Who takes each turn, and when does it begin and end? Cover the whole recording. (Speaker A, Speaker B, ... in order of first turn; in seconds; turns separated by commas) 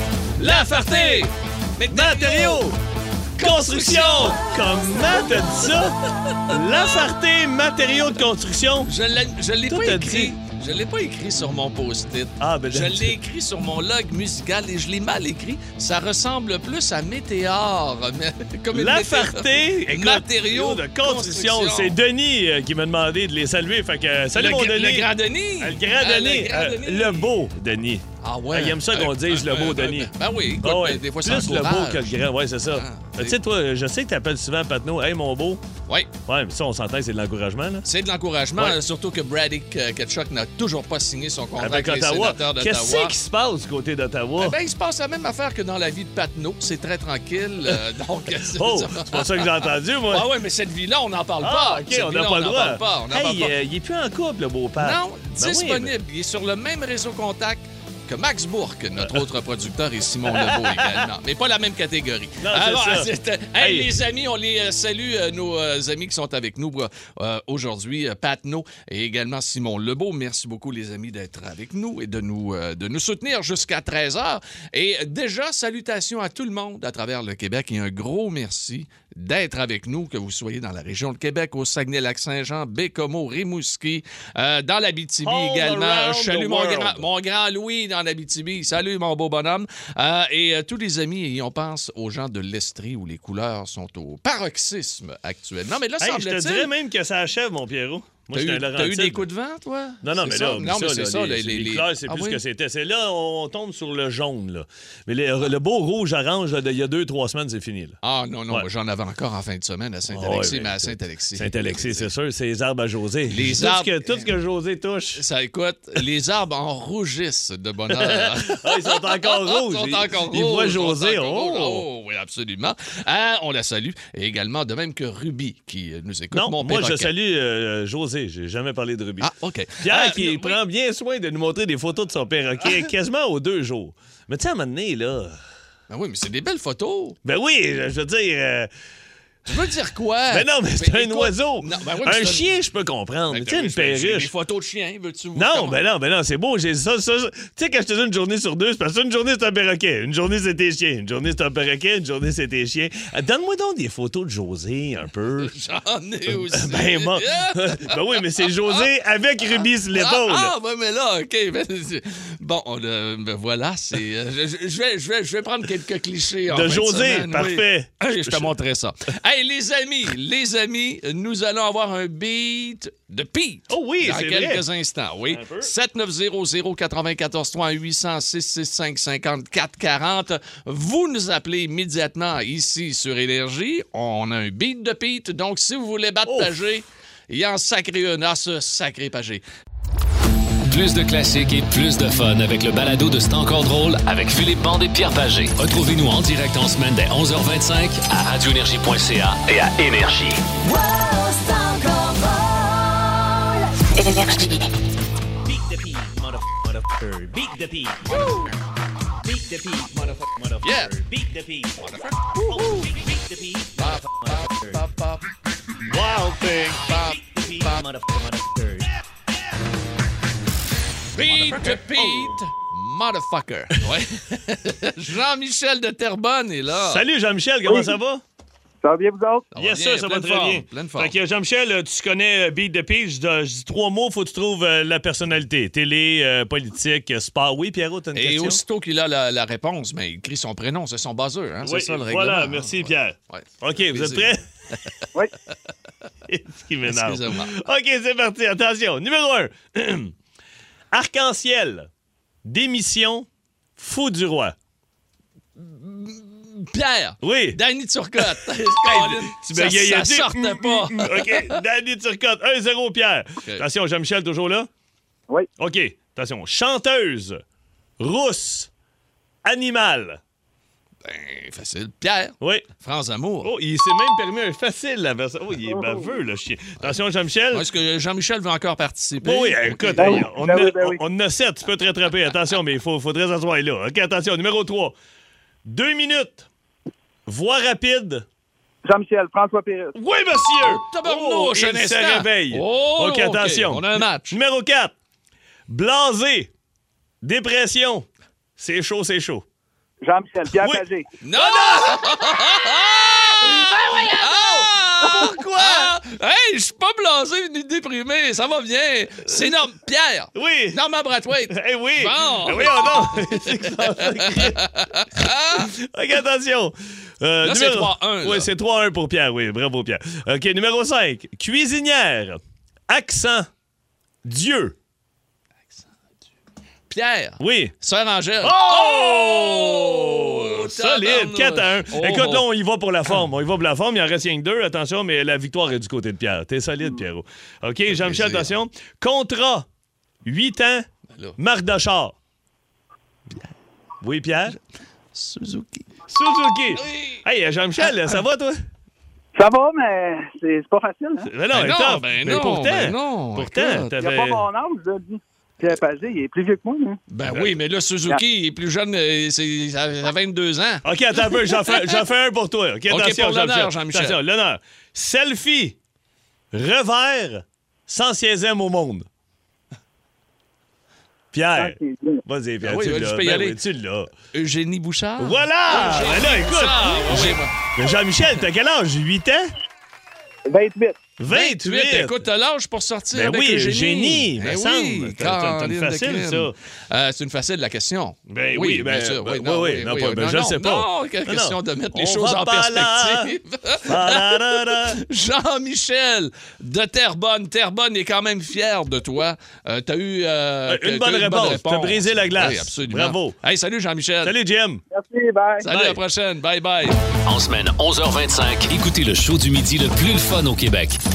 Speaker A: 0.4-2.6, Speaker B: 0.5-1.2, Speaker B: 1.9-2.8, Speaker B: 3.4-8.9, Speaker A: 3.4-4.5, Speaker A: 8.8-22.0, Speaker B: 9.7-10.3, Speaker B: 12.4-13.1, Speaker B: 18.7-35.6, Speaker A: 24.3-27.3, Speaker A: 28.2-32.1, Speaker A: 32.7-33.4, Speaker B: 36.2-37.9, Speaker A: 37.9-43.1, Speaker B: 41.6-44.6, Speaker A: 44.4-53.5, Speaker B: 48.4-50.3, Speaker B: 51.4-55.9, Speaker A: 54.8-96.7, Speaker B: 60.3-61.0, Speaker B: 62.4-64.0, Speaker B: 85.2-87.1, Speaker B: 96.0-99.2, Speaker A: 98.3-102.4, Speaker B: 100.0-108.0, Speaker A: 108.0-112.1, Speaker B: 110.1-115.2, Speaker A: 113.3-114.3, Speaker A: 115.1-127.1, Speaker B: 117.9-121.8, Speaker B: 126.3-135.4, Speaker A: 129.2-130.6, Speaker A: 135.9-137.2, Speaker B: 137.2-138.7, Speaker A: 139.4-142.5, Speaker B: 140.3-144.3, Speaker A: 143.3-145.8, Speaker B: 145.3-155.5, Speaker A: 155.4-158.9, Speaker B: 156.3-160.5, Speaker A: 159.4-189.4, Speaker B: 166.5-168.5, Speaker B: 173.7-174.6, Speaker B: 175.3-175.7, Speaker B: 186.2-186.5, Speaker C: 190.7-200.4, Speaker D: 200.6-204.7, Speaker B: 205.4-208.3, Speaker B: 209.2-211.9, Speaker A: 210.6-210.9, Speaker A: 211.8-212.8, Speaker B: 212.4-214.8, Speaker A: 213.8-215.3, Speaker B: 215.8-218.9, Speaker A: 216.7-217.8, Speaker A: 221.1-227.0, Speaker B: 221.2-222.3, Speaker B: 226.7-228.2, Speaker E: 227.6-227.9, Speaker E: 228.8-229.5, Speaker A: 229.5-231.1, Speaker B: 229.5-238.6, Speaker A: 238.1-244.3, Speaker B: 241.6-244.4, Speaker B: 246.3-250.1, Speaker A: 246.8-247.5, Speaker B: 250.9-251.9, Speaker B: 252.4-254.5, Speaker A: 255.6-261.6, Speaker B: 257.2-257.6, Speaker B: 258.2-264.7, Speaker B: 265.6-267.4, Speaker B: 268.0-268.7, Speaker B: 269.4-270.2, Speaker A: 271.0-273.5, Speaker B: 272.4-272.7, Speaker B: 273.4-277.6, Speaker E: 275.8-276.0, Speaker A: 277.5-280.2, Speaker B: 279.2-284.9, Speaker E: 279.9-281.0, Speaker B: 285.6-286.5, Speaker B: 287.2-288.2, Speaker E: 288.8-289.9, Speaker B: 289.9-294.9, Speaker A: 290.6-294.4, Speaker B: 295.7-296.5, Speaker B: 297.2-299.4, Speaker E: 300.0-301.1, Speaker B: 300.5-302.4, Speaker A: 301.2-315.7, Speaker B: 303.4-305.9, Speaker B: 310.3-310.8, Speaker B: 311.5-323.5, Speaker A: 317.4-318.5, Speaker B: 324.2-324.8, Speaker A: 326.9-332.5, Speaker B: 327.4-327.7, Speaker B: 328.4-339.7, Speaker A: 337.9-338.5, Speaker B: 340.2-340.9, Speaker B: 341.4-342.1, Speaker B: 344.0-344.6, Speaker A: 345.1-345.9, Speaker B: 346.1-348.6, Speaker A: 346.7-347.2, Speaker E: 349.3-351.3, Speaker B: 351.2-354.4, Speaker A: 351.5-353.9, Speaker E: 353.9-357.0, Speaker A: 357.1-361.9, Speaker B: 357.2-357.6, Speaker B: 360.8-365.8, Speaker A: 362.9-364.2, Speaker B: 366.5-369.1, Speaker B: 371.3-374.1, Speaker E: 371.5-372.2, Speaker A: 372.6-373.6, Speaker A: 374.3-377.6, Speaker B: 375.2-379.5, Speaker E: 380.5-381.0, Speaker B: 381.2-382.2, Speaker A: 381.3-404.3, Speaker B: 383.1-386.5, Speaker B: 388.3-395.0, Speaker B: 400.7-403.4, Speaker B: 404.2-404.8, Speaker E: 404.9-406.0, Speaker A: 405.6-407.0, Speaker C: 407.2-411.0